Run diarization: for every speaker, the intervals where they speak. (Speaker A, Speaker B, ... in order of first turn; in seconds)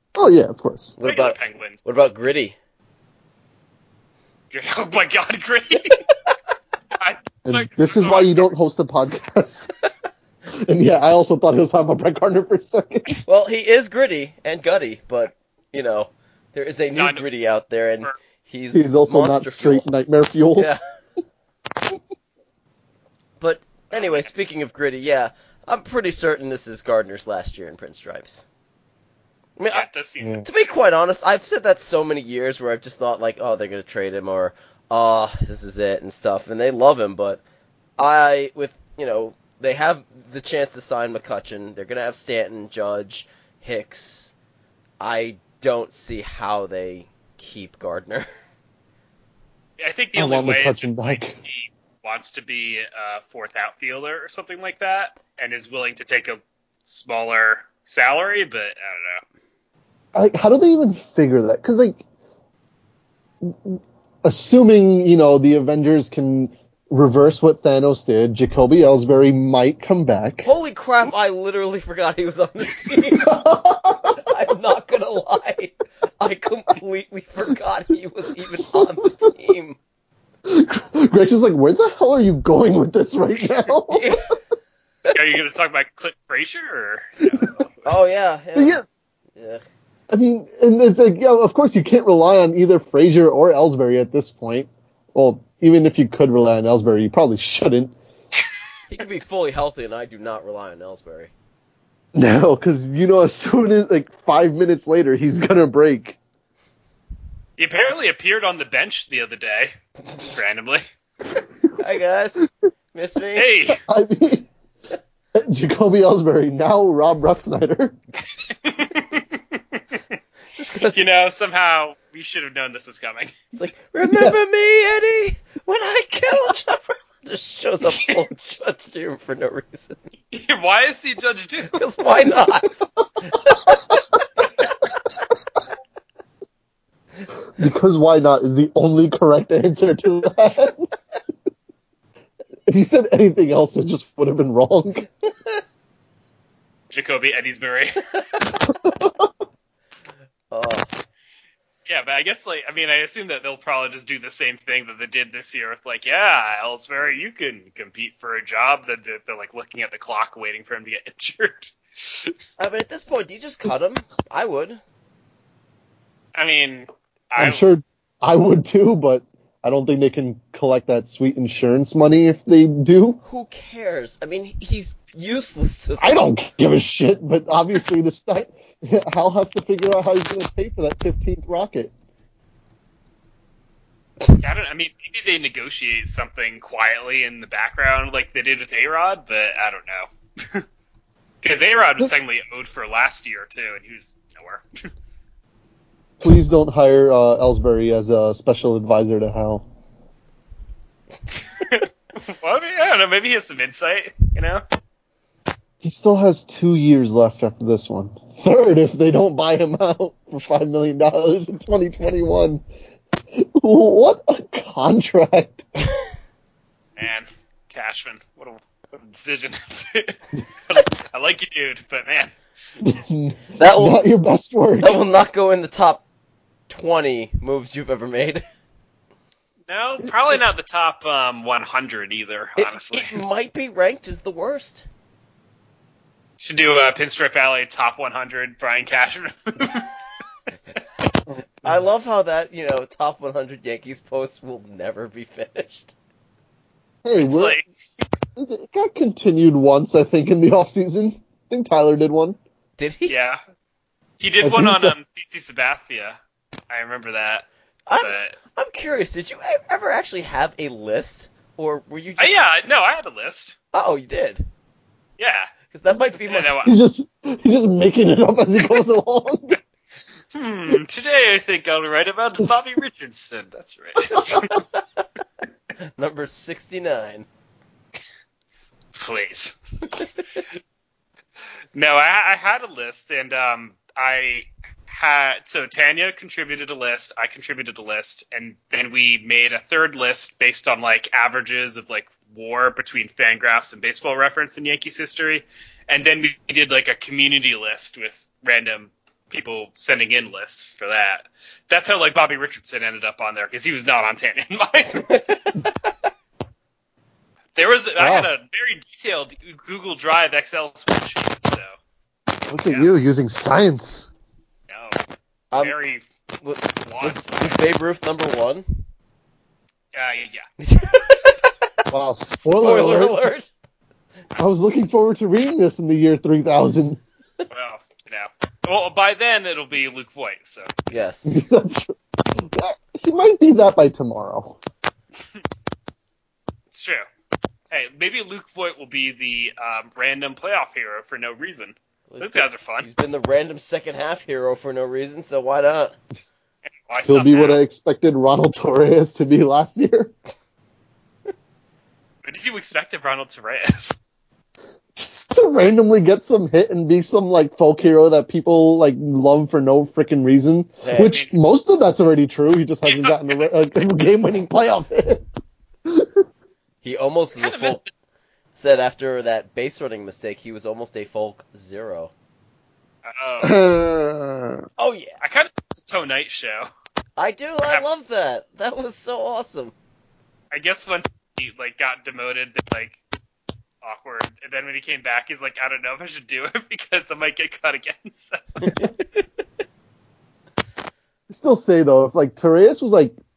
Speaker A: 0.2-1.0, 7.5-9.7, 10.6-13.2, 18.7-20.7, 30.2-30.5, 50.2-51.4, 60.1-62.0, 63.4-70.5, 73.2-74.2, 78.6-79.3, 80.5-84.2, 87.3-87.6, 88.6-88.8, 90.1-97.9, 102.2-106.2, 113.7-114.5, 115.3-118.0, 124.0-124.5, 137.6-140.9, 142.7-145.1, 148.6-149.3, 167.4-173.2, 176.0-181.9, 196.2-199.6, 205.8-212.6, 213.3-215.7, 222.8-225.0, 241.3-241.9, 247.0-247.6, 248.4-252.4, 254.4-254.9, 266.6-269.6, 308.0-308.3, 312.5-314.1, 321.9-323.2, 324.4-327.0, 331.3-334.6, 347.1-350.1, 354.9-365.3, 365.9-366.2, 373.4-374.6, 391.3-393.1
Speaker B: 1.0-2.6, 13.3-19.9, 23.4-28.4, 29.6-29.9, 30.4-37.4, 38.0-44.3, 45.0-48.3, 70.4-73.3, 74.1-79.8, 83.9-84.3, 87.8-88.8, 89.4-89.6, 98.9-101.3, 111.8-113.5, 120.5-121.0, 123.5-130.0, 131.7-133.8, 150.5-150.9, 162.6-164.8, 173.2-176.2, 223.6-224.0, 224.8-226.0, 226.7-228.4, 232.6-234.9, 241.6-245.9, 252.8-253.2, 257.9-262.4, 263.7-264.4, 265.7-266.6, 274.3-274.8, 276.0-277.3, 316.4-318.7, 320.6-321.6, 322.4-323.5, 330.9-331.3, 342.1-346.0, 360.8-361.2, 366.8-367.8, 368.6-372.1, 374.8-375.2, 377.2-379.7, 388.6-389.2
Speaker C: 1.1-1.8, 4.5-6.0, 7.0-8.5, 16.9-17.2, 23.9-24.3, 29.7-30.4, 49.8-59.2, 85.1-87.9, 107.6-110.8, 113.3-113.8, 118.5-119.4, 120.9-123.4, 130.3-131.8, 146.9-148.4, 151.9-162.3, 166.3-167.7, 184.4-190.7, 191.4-194.6, 201.6-204.6, 217.0-222.3, 229.7-233.3, 236.4-240.0, 247.2-247.7, 253.1-253.4, 254.2-256.2, 256.7-257.5, 258.0-258.4, 262.2-263.6, 265.2-265.5, 266.3-266.7, 270.3-274.6, 279.0-280.2, 281.8-305.7, 307.6-311.7, 314.7-315.0, 315.6-316.1, 316.9-317.6, 319.9-321.3, 327.5-330.8, 336.7-337.1, 337.7-342.9, 346.8-347.6, 352.2-354.0, 361.1-361.3, 362.9-363.5, 367.4-367.9, 373.1-373.6, 375.2-376.7, 380.5-383.0, 383.8-388.8